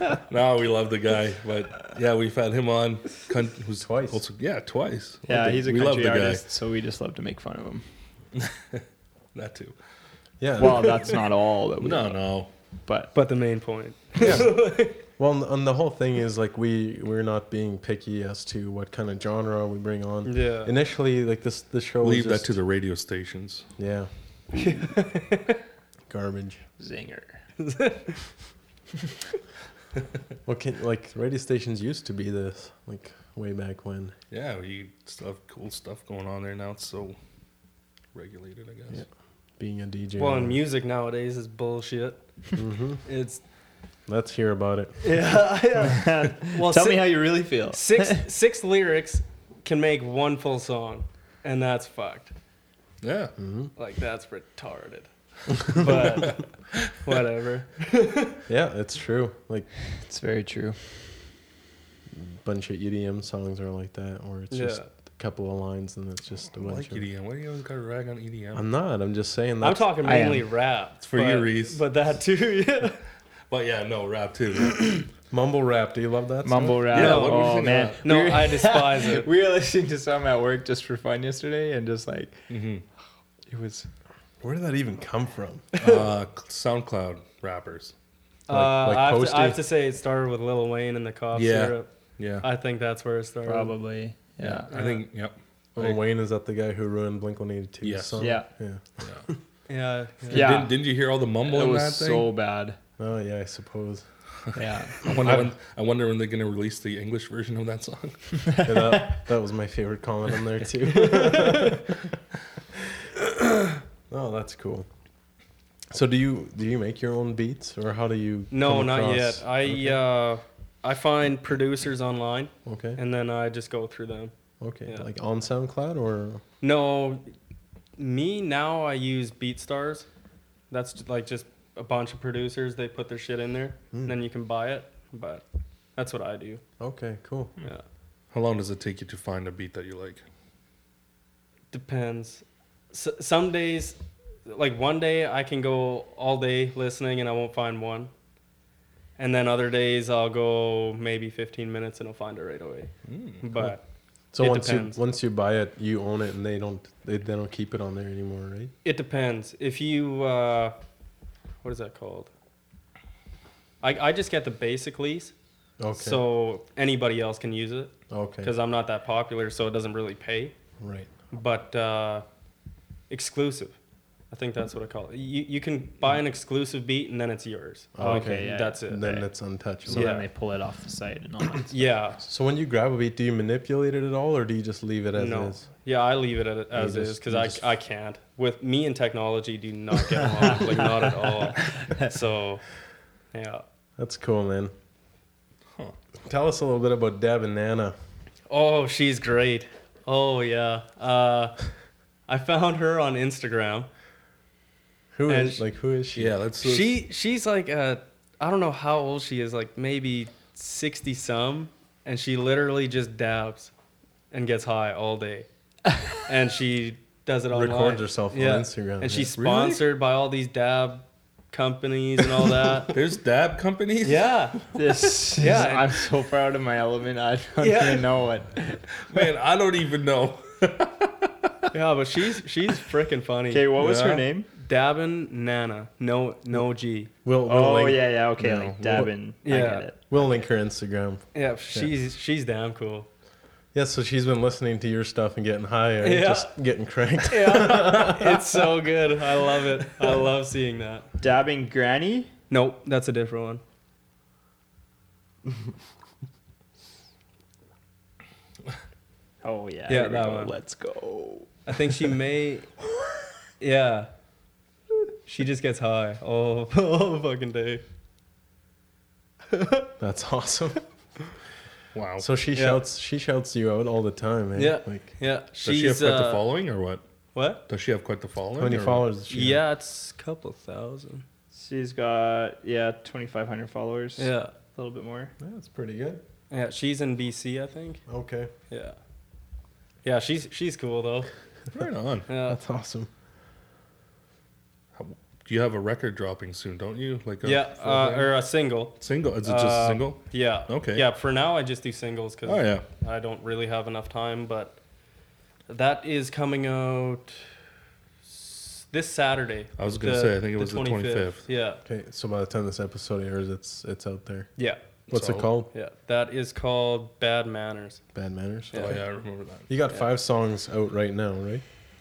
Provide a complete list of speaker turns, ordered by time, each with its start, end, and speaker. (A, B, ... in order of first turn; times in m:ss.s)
0:00.1-0:06.4 A
0:03.8-0:04.2 B
0:05.3-0:07.8 C
0:08.4-0:08.8 A
0:09.3-0:09.7 A
0:10.4-0:11.0 B
0:10.6-0:12.2 C
0:11.8-0:12.5 A
0:12.8-0:13.1 C
0:13.1-0:15.0 D
0:15.2-0:22.6 B
0:20.2-0:20.7 D
0:22.0-0:23.7 A
0:23.8-0:24.1 B
0:24.6-0:25.6 D
0:26.1-0:26.6 B
0:26.8-0:27.4 C
0:27.6-0:28.2 D
0:30.4-0:34.1 B
0:34.3-0:37.2 A
0:38.1-0:39.0 A
0:39.6-0:40.6 B
0:40.2-0:42.2 D
0:42.6-0:43.0 B
0:43.0-0:43.4 D
0:44.1-0:45.0 B
0:45.0-0:52.3 D
0:45.8-0:48.2 C
0:53.0-0:53.3 A
0:53.4-0:53.7 B
0:53.8-0:58.4 D
0:58.5-0:59.7 B
1:00.0-1:00.8 C
1:02.1-1:07.0 B
1:04.5-1:04.9 D
1:06.5-1:08.6 A
1:08.5-1:09.9 B
1:09.6-1:13.0 D
1:10.0-1:10.4 C
1:11.0-1:11.8 A
1:13.5-1:15.0 A
1:15.3-1:16.9 B
1:16.4-1:22.4 C
1:16.9-1:18.1 A
1:16.9-1:19.3 D
1:22.5-1:22.8 A
1:23.5-1:23.9 C
1:24.4-1:25.9 B
1:25.8-1:27.9 A
1:28.5-1:31.9 D
1:28.5-1:29.6 B
1:31.3-1:32.4 A
1:32.4-1:33.7 D
1:33.4-1:34.7 C
1:34.4-1:36.0 A
1:34.7-1:35.0 D
1:35.8-1:39.4 B
1:37.8-1:38.4 A
1:38.2-1:38.5 C
1:39.7-1:40.5 D
1:40.3-1:42.3 A
1:40.3-1:40.8 C
1:41.4-1:42.8 C
1:43.0-1:44.0 B
1:44.5-1:48.3 A
1:44.5-1:45.1 C
1:45.0-1:45.5 B
1:48.4-1:49.2 C
1:48.6-1:52.0 B
1:51.0-1:51.8 D
1:52.8-1:53.2 B
1:54.1-1:54.9 B
1:55.9-2:00.0 B
1:58.5-2:04.3 D
2:02.6-2:03.0 B
2:04.6-2:06.4 B
2:06.6-2:07.3 D
2:08.0-2:10.1 D
2:10.7-2:15.4 D
2:16.0-2:16.6 D
2:16.8-2:17.5 B
2:18.3-2:20.2 A
2:21.7-2:28.1 D
2:29.2-2:32.9 D
2:33.1-2:33.4 A
2:33.4-2:33.8 D
2:34.3-2:38.7 B
2:34.4-2:35.0 D
2:38.8-2:40.7 D
2:41.6-2:42.3 D
2:43.8-2:45.3 D
2:45.8-2:46.2 B
2:45.9-2:50.5 D
2:48.1-2:48.5 B
2:50.8-2:51.1 B
2:51.3-2:52.2 D
2:53.1-2:53.7 D
2:54.3-2:59.3 D
2:57.9-3:00.1 B
2:58.0-2:58.8 C
2:59.8-3:01.9 C
2:59.9-3:00.3 D
3:01.7-3:02.2 D
3:02.2-3:05.6 B
3:05.2-3:12.6 D
3:06.7-3:07.6 B
3:10.4-3:12.1 C
3:13.3-3:13.6 D
3:14.0-3:14.7 B
3:16.2-3:18.0 B
3:18.5-3:21.6 D
3:22.3-3:23.9 D
3:25.1-3:26.4 B
3:25.3-3:25.6 D
3:26.1-3:27.0 A
3:26.6-3:33.7 D
3:34.3-3:35.5 D
3:36.2-3:42.9 D
3:37.5-3:39.8 B
3:42.9-3:44.6 A
3:44.0-3:44.6 D
3:44.7-3:49.2 C
3:45.4-3:45.9 D
3:47.6-3:48.1 D
3:49.1-3:51.3 A
3:51.7-3:53.7 D
3:53.5-3:54.5 C
3:53.8-3:54.2 A
3:54.6-3:57.1 D
3:57.2-3:58.0 B
3:57.4-4:00.0 C
3:58.4-3:59.1 A
3:59.4-3:59.9 D
4:00.1-4:01.9 B
4:01.3-4:03.1 D
4:03.7-4:08.8 B
4:06.0-4:06.5 D
4:07.2-4:11.0 D
4:11.2-4:12.3 C
4:12.5-4:13.6 D
4:19.4-4:21.5 C
4:19.9-4:20.5 D
4:21.7-4:22.7 D
4:23.6-4:24.1 D
4:25.2-4:27.8 D
4:29.5-4:29.9 D
4:30.0-4:30.8 B
4:31.9-4:32.2 A
4:32.2-4:35.0 B
4:32.5-4:32.8 D
4:34.6-4:36.4 D
4:35.6-4:37.0 A
4:37.3-4:37.6 D
4:37.7-4:39.0 A
4:38.6-4:39.6 B
4:39.3-4:41.2 D
4:41.5-4:45.3 C
4:44.2-4:44.5 D
4:45.4-4:46.2 B
4:46.5-4:48.0 D
4:48.1-4:48.5 B
4:48.7-4:49.0 D
4:50.0-4:51.3 D
4:51.7-4:52.3 A
4:52.3-4:52.6 D
4:52.4-4:53.1 B
4:55.0-4:58.3 A
4:57.4-5:04.8 D
4:59.0-5:01.0 A
5:02.4-5:02.8 A
5:05.7-5:07.4 D
5:08.3-5:11.8 D
5:09.8-5:11.4 A
5:11.8-5:14.5 B
5:15.1-5:15.5 A
5:15.1-5:15.7 B
5:15.7-5:18.0 D
5:18.1-5:19.0 B
5:18.7-5:19.0 D
5:18.7-5:19.7 A
5:19.7-5:21.6 B